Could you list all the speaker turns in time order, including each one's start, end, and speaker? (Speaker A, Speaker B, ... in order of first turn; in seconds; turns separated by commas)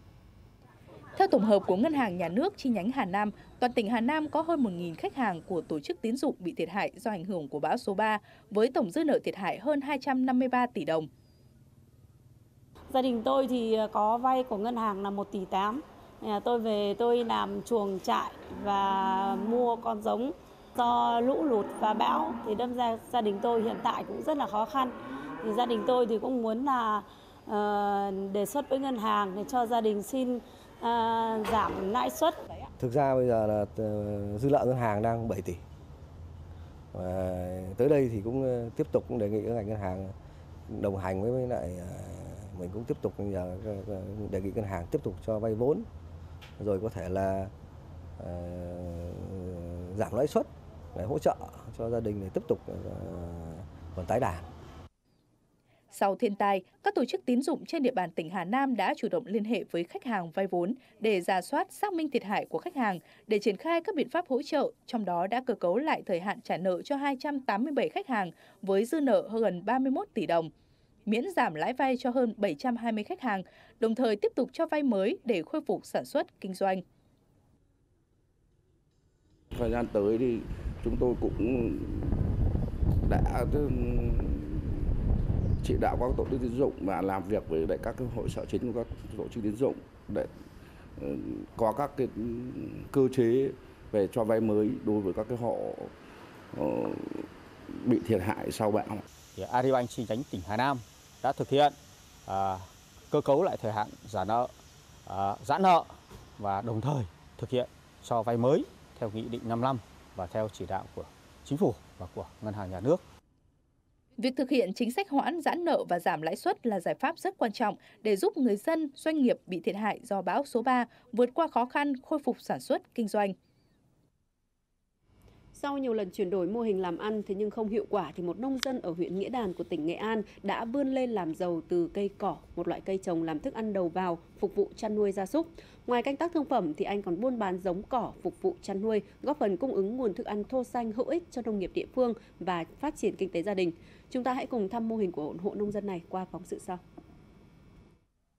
Speaker A: 1.1-11.1, Speaker B: 12.9-32.7, Speaker C: 32.8-35.6, Speaker C: 36.9-40.1, Speaker C: 40.7-45.9, Speaker C: 46.6-47.5, Speaker C: 48.2-54.5, Speaker A: 55.9-70.5, Speaker A: 71.1-76.8, Speaker D: 79.5-82.2, Speaker D: 83.0-84.9, Speaker D: 85.6-90.3, Speaker D: 91.0-95.9, Speaker D: 96.5-99.1, Speaker E: 99.3-104.5, Speaker E: 105.1-113.0, Speaker A: 114.2-123.3, Speaker F: 125.5-146.8